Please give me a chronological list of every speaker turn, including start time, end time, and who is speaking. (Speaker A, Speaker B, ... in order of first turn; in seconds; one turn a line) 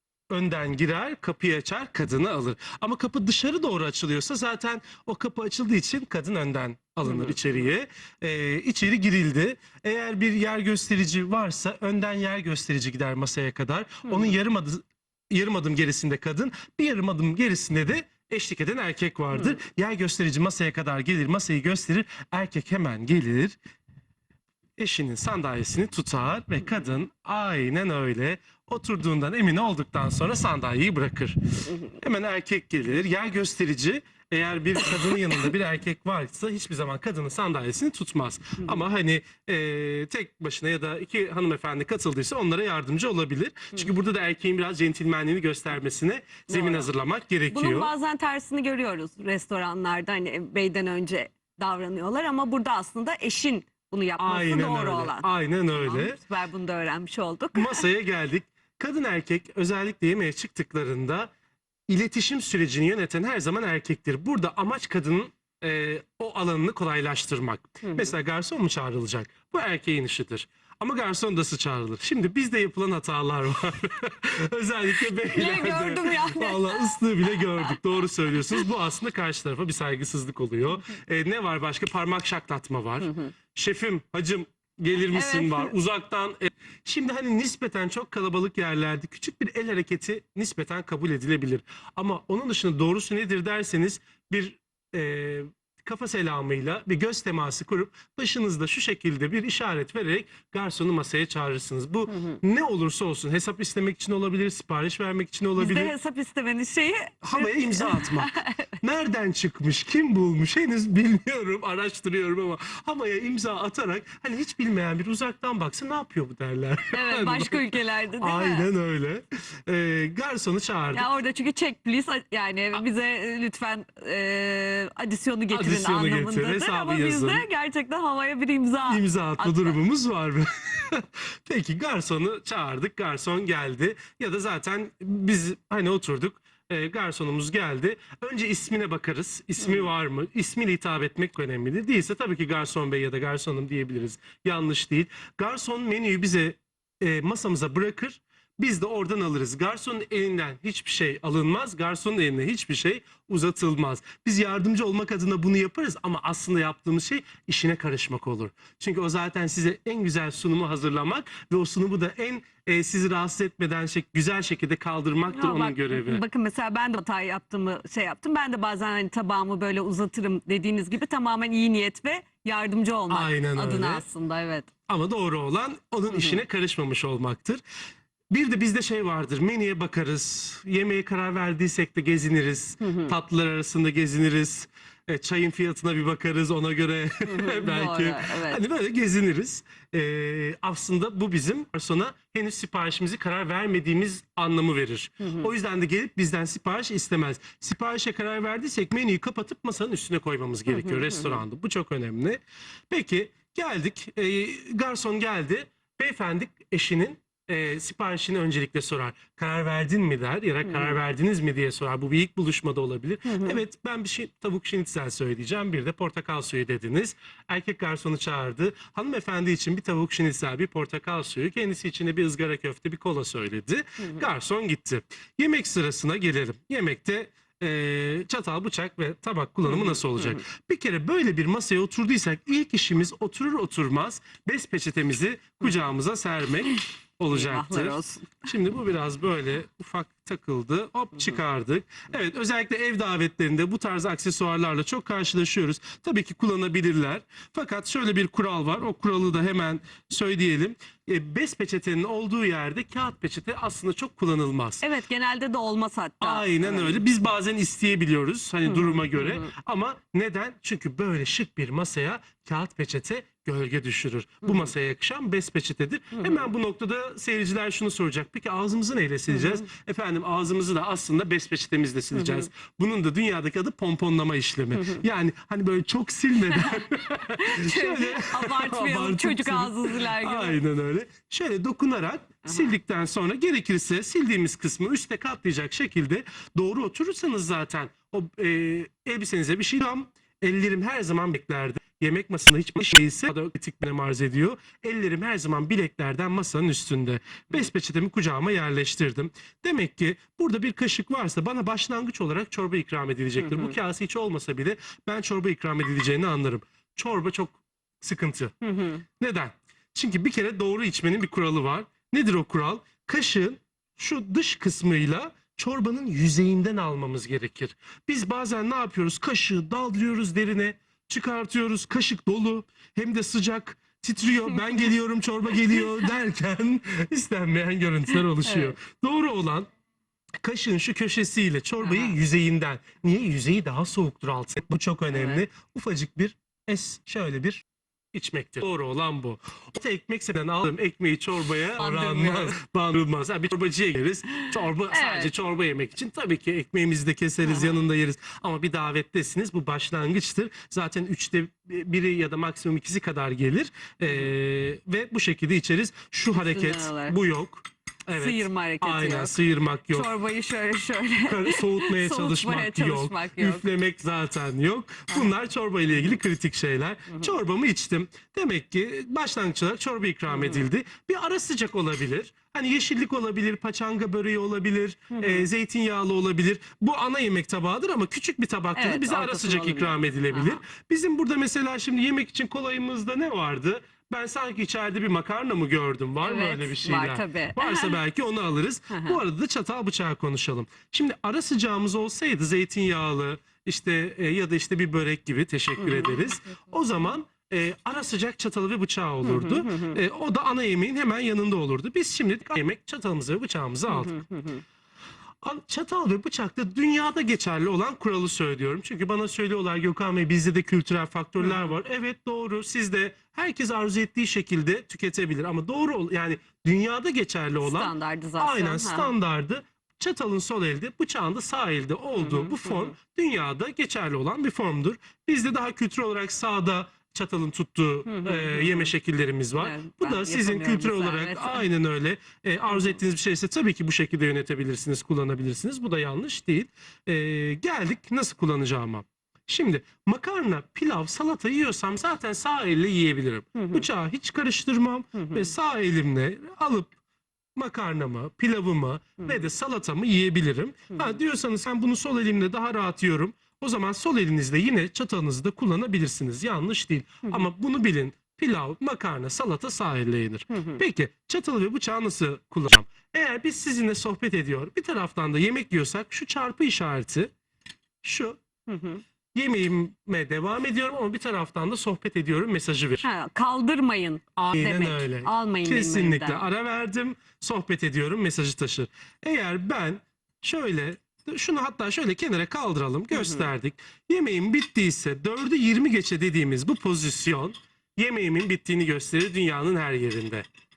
Speaker A: 0.3-23.6
Speaker B: 14.1-14.3
Speaker A: 24.8-47.9
Speaker B: 46.5-46.9
Speaker B: 47.5-57.8
Speaker A: 54.2-56.2
Speaker A: 57.5-61.3
Speaker A: 61.9-105.9
Speaker B: 75.2-77.8
Speaker B: 83.0-83.3
Speaker B: 85.1-85.7
Speaker B: 102.1-102.4
Speaker B: 105.6-108.7
Speaker A: 107.2-121.1
Speaker B: 116.9-118.7
Speaker B: 120.9-129.8
Speaker A: 125.5-127.5
Speaker A: 128.9-166.2
Speaker B: 165.3-174.7
Speaker A: 173.1-174.0
Speaker A: 174.9-177.6
Speaker B: 176.1-176.4
Speaker A: 178.3-254.8
Speaker B: 182.8-183.1
Speaker B: 187.3-188.6
Speaker B: 195.2-195.5
Speaker B: 200.8-201.4
Speaker B: 213.3-213.6
Speaker B: 229.7-230.4
Speaker B: 237.3-238.4
Speaker B: 254.8-257.0
Speaker A: 256.2-308.5
Speaker B: 258.7-259.5
Speaker B: 272.2-272.4
Speaker B: 276.5-280.6
Speaker B: 282.5-282.7
Speaker B: 303.4-303.7
Speaker B: 308.6-309.0
Speaker A: 309.2-329.7
Speaker B: 328.4-328.7
Speaker A: 330.4-360.1
Speaker B: 331.8-332.1
Speaker B: 335.1-335.4
Speaker B: 341.8-342.5
Speaker B: 344.9-345.3
Speaker B: 356.3-357.2
Speaker B: 358.1-359.4
Speaker B: 359.9-363.7
Speaker A: 361.2-404.3
Speaker B: 370.3-370.6
Speaker B: 375.1-375.5
Speaker B: 378.8-380.6
Speaker B: 386.2-388.0
Speaker B: 388.9-389.2
Speaker B: 399.2-400.0
Speaker B: 403.9-404.6
Speaker A: 405.4-447.0
Speaker B: 417.6-419.1
Speaker B: 422.2-422.9
Speaker B: 428.1-428.9
Speaker B: 429.6-431.6
Speaker B: 443.6-443.9
Speaker B: 445.2-445.5
Speaker A: 447.6-467.3
Speaker B: 450.9-451.2
Speaker B: 460.5-460.8
Speaker A: 468.0-468.4
Speaker B: 468.7-469.0
Speaker A: 469.3-473.0
Speaker B: 473.0-476.4
Speaker A: 474.4-490.5
Speaker B: 483.1-483.5